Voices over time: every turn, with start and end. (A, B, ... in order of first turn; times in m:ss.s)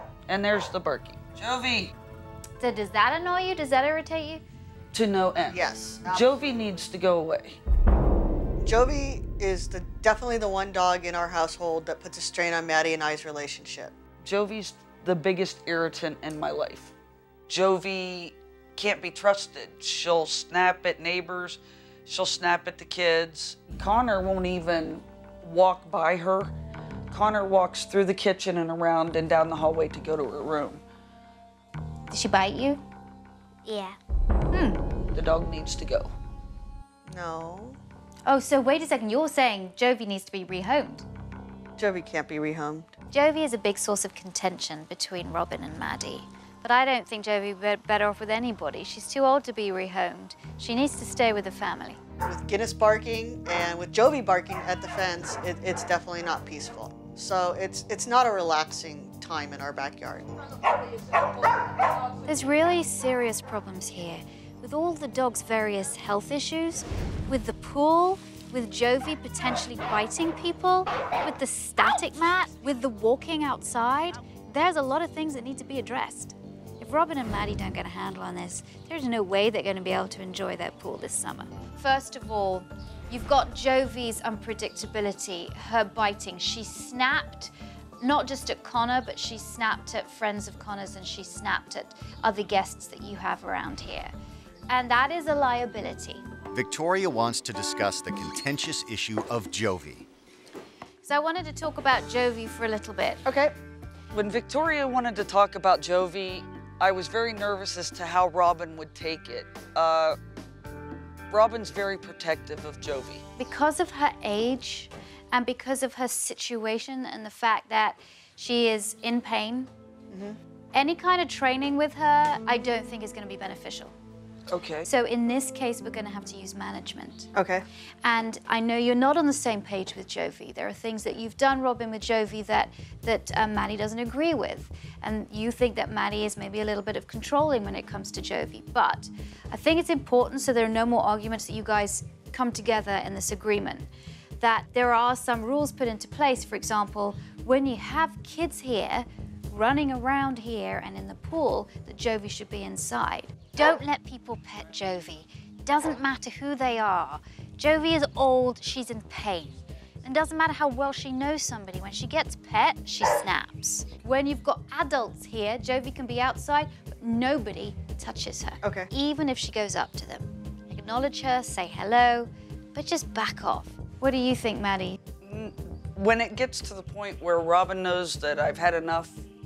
0:00.3-0:01.9 A
0:02.6-0:04.4 B
0:04.9-0:07.6 A
0:05.5-0:06.3 C
0:08.6-0:13.9 C
0:14.2-0:16.9 A
0:17.5-0:26.5 A
0:27.1-0:30.8 A
0:32.1-0:32.8 B
0:33.6-0:34.0 B
0:34.5-0:34.8 B
0:35.1-0:36.1 A
0:37.0-0:37.8 C
0:38.3-0:41.0 B
0:41.8-0:42.9 C
0:43.1-0:52.0 B
0:52.2-1:00.3 C
1:02.2-1:34.1 B
1:34.7-1:36.2 B
1:36.5-1:40.0 D
1:41.0-1:43.2 B
1:43.2-1:43.5 C
1:44.1-1:50.2 A
1:51.3-1:53.2 A
1:53.4-1:59.7 B
2:00.1-2:00.4 C
2:00.7-2:03.9 B
2:04.5-2:04.9 A
2:04.8-2:07.3 B
2:07.3-2:07.6 C
2:08.0-2:23.9 B
2:24.4-2:55.0 B
2:48.6-2:48.9 C
2:55.2-2:59.2 A